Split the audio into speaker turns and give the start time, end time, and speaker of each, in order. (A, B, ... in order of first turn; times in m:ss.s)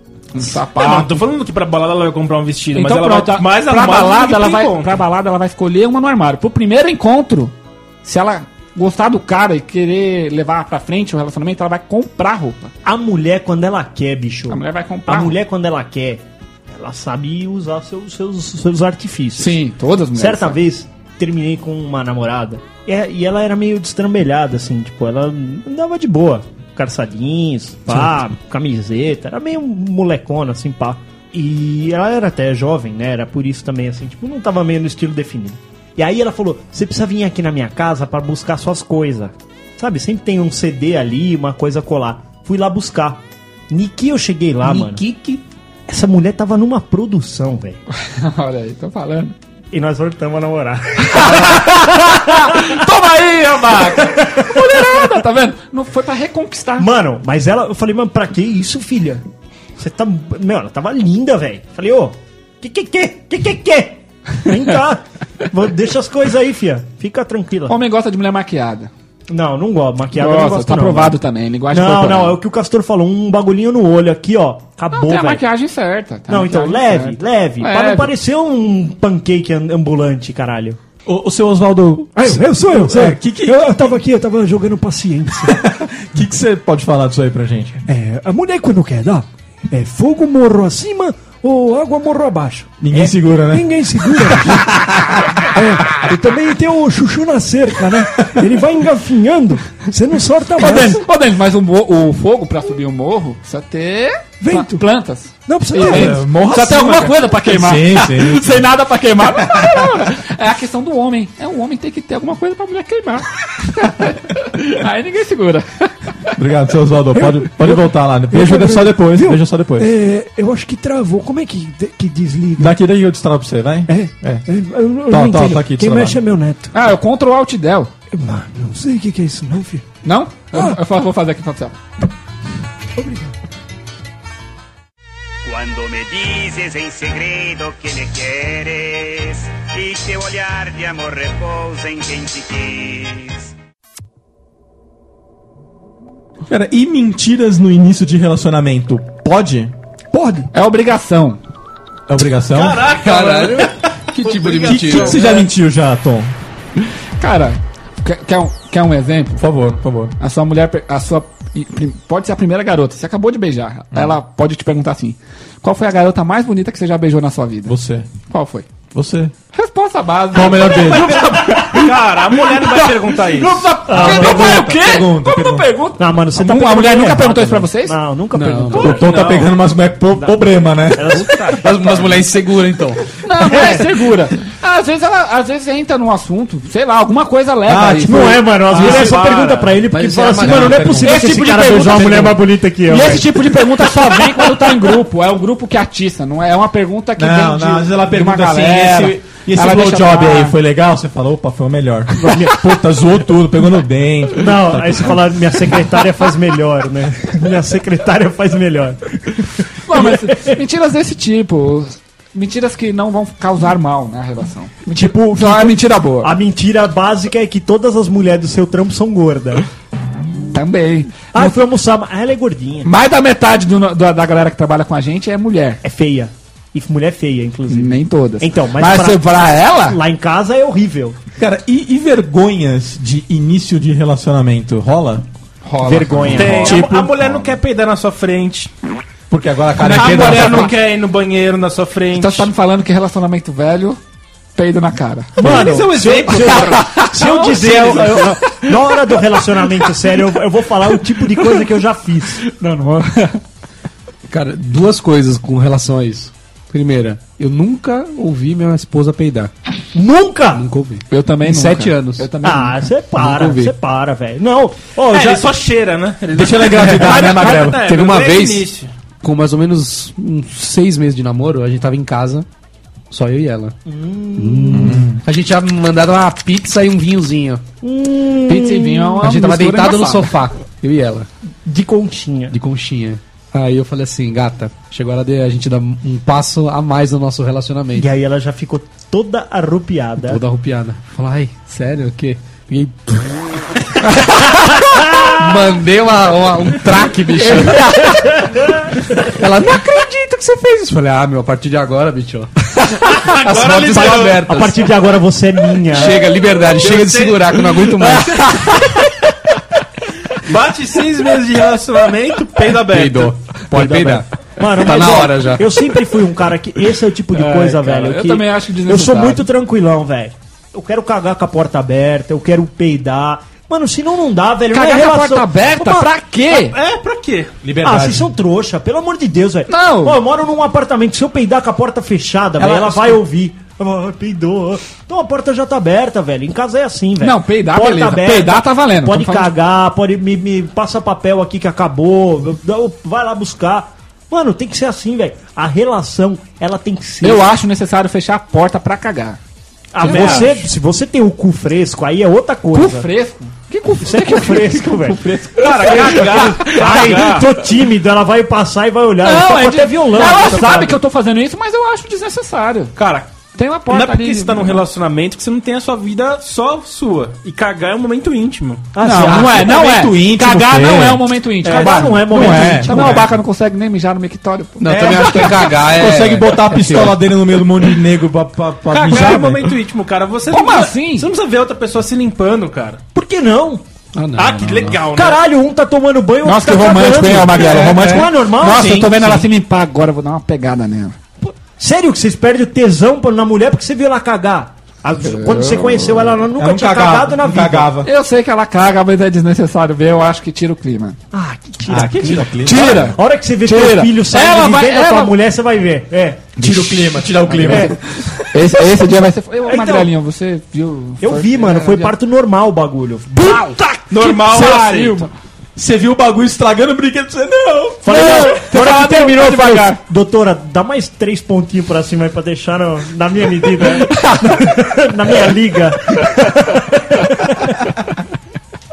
0:00.3-0:01.1 A
0:00.6-0:05.0 B
0:02.7-0:12.7 A
0:12.8-0:19.6 C
0:14.5-0:15.4 A
0:19.4-0:20.6 A
0:20.1-0:45.0 C
0:44.6-0:45.4 D
0:45.9-0:47.8 C
0:47.9-0:49.3 A
0:49.7-0:52.8 C
0:51.0-0:56.9 A
0:54.0-0:55.0 C
0:56.8-0:59.2 C
0:59.8-1:07.8 C
1:07.7-1:08.9 A
1:09.3-1:11.2 C
1:10.2-1:12.4 A
1:11.7-1:15.4 C
1:14.9-1:18.1 A
1:16.3-1:20.8 C
1:21.0-1:24.0 E
1:22.2-1:25.6 F
1:25.4-1:27.8 E
1:27.8-1:41.0 F
1:32.8-1:34.8 E
1:40.6-1:56.3 A
1:44.4-1:44.8 F
1:45.4-1:46.2 F
1:45.8-1:48.7 E
1:49.4-1:50.0 E
1:56.4-1:59.9 E
1:57.2-2:02.8 F
2:02.6-2:04.4 E
2:03.9-2:06.7 F
2:05.1-2:06.2 E
2:06.7-2:07.9 A
2:08.1-2:09.8 F
2:10.0-2:11.8 A
2:13.0-2:13.3 F
2:15.4-2:23.5 G
2:26.5-2:29.7 E
2:30.1-2:30.5 F
2:30.5-2:31.4 A
2:32.1-2:32.9 E
2:32.5-2:35.4 B
2:32.9-2:35.2 D
2:34.6-2:36.3 E
2:37.2-2:39.4 A
2:39.4-2:40.1 E
2:40.2-2:47.8 A
2:47.6-2:48.1 E
2:48.3-2:48.7 A
2:48.9-2:49.3 E
2:49.5-2:58.0 A
2:50.3-2:51.4 E
2:50.8-2:53.8 B
2:53.8-2:54.8 C
2:53.9-2:55.7 E
2:56.0-2:59.5 C
2:58.3-2:59.0 D
2:58.8-3:01.3 E
2:58.9-2:59.5 B
3:00.2-3:02.1 C
3:01.5-3:03.1 D
3:03.2-3:09.0 A
3:03.3-3:03.9 C
3:07.7-3:08.5 E
3:08.0-3:14.6 C
3:08.7-3:09.2 D
3:08.7-3:09.7 B
3:09.8-3:11.2 D
3:10.4-3:11.0 E
3:11.0-3:20.6 A
3:17.2-3:25.3 E
3:22.2-3:22.6 C
3:24.4-3:30.6 C
3:29.8-3:36.3 A
3:34.9-3:39.6 C
3:40.5-3:41.6 A
3:41.3-3:42.9 C
3:42.8-3:45.8 A
3:45.8-3:51.2 C
3:47.7-3:50.0 A
3:51.4-3:55.2 E
3:55.6-3:57.2 A
3:55.8-3:57.0 C
3:55.9-3:56.6 E
3:56.3-3:58.7 B
3:59.3-4:00.7 E
3:59.8-4:00.7 A
3:59.8-4:02.5 B
4:02.1-4:04.0 A
4:04.6-4:05.9 A
4:05.4-4:08.5 B
4:05.4-4:12.4 C
4:06.5-4:07.1 A
4:12.5-4:13.4 A
4:14.3-4:19.5 D
4:19.9-4:20.6 C
4:20.5-4:22.3 D
4:21.1-4:23.7 A
4:22.4-4:25.5 C
4:25.1-4:28.9 B
4:26.3-4:27.8 E
4:26.9-4:27.8 A
4:27.8-4:28.7 D
4:29.2-4:32.4 D
4:33.1-4:33.7 D
4:33.8-4:35.0 C
4:34.4-4:37.6 D
4:34.7-4:35.2 E
4:37.8-4:39.2 C
4:38.5-4:40.3 A
4:39.2-4:41.3 D
4:41.6-4:42.5 C
4:42.5-4:48.1 D
4:48.0-4:50.4 C
4:50.3-4:53.5 D
4:54.0-4:58.2 D
4:57.5-4:58.3 A
4:59.1-5:05.0 D
5:03.1-5:04.5 B
5:04.0-5:06.3 C
5:05.9-5:08.8 D
5:06.6-5:07.9 B
5:08.4-5:08.9 A
5:10.4-5:13.3 B
5:12.6-5:15.7 D
5:13.7-5:26.1 C
5:17.3-5:19.4 A
5:24.7-5:26.8 A
5:26.5-5:27.6 B
5:27.6-5:28.3 E
5:27.8-5:47.4 C
5:29.7-5:30.2 A
5:32.6-5:33.2 E
5:37.2-5:39.5 A
5:47.2-5:49.4 A
5:49.9-5:53.1 C
5:50.0-5:50.5 B
5:50.0-5:50.6 A
5:52.7-5:57.3 A
5:54.0-5:55.2 C
5:55.5-5:57.5 B
5:55.8-6:01.0 C
5:59.2-6:02.9 A
6:03.0-6:03.3 B
6:03.5-6:04.8 A
6:03.9-6:08.9 B
6:08.9-6:10.1 C
6:09.0-6:15.7 A
6:09.2-6:13.3 E
6:11.6-6:13.3 C
6:14.8-6:16.8 D
6:14.9-6:15.7 C
6:15.8-6:19.8 E
6:16.7-6:17.1 A
6:18.9-6:23.0 B
6:20.5-6:21.3 A
6:23.1-6:23.8 C
6:24.1-6:25.0 D
6:24.4-6:25.4 B
6:25.1-6:29.5 C
6:26.4-6:31.2 A
6:27.5-6:28.3 E
6:31.4-6:37.9 C
6:35.2-6:36.4 A
6:36.6-6:38.1 E
6:38.0-6:41.2 A
6:41.3-6:46.8 C
6:41.9-6:43.1 E
6:42.3-6:45.4 A
6:46.6-6:48.0 E
6:47.5-6:47.9 A
6:47.5-6:47.9 C
6:48.5-6:52.1 A
6:49.6-6:50.1 C
6:51.2-6:54.0 C
6:53.3-6:55.3 A
6:54.1-6:55.3 B
6:55.8-6:58.3 E
6:58.0-7:07.9 C
6:58.0-7:00.0 A
7:04.2-7:04.4 A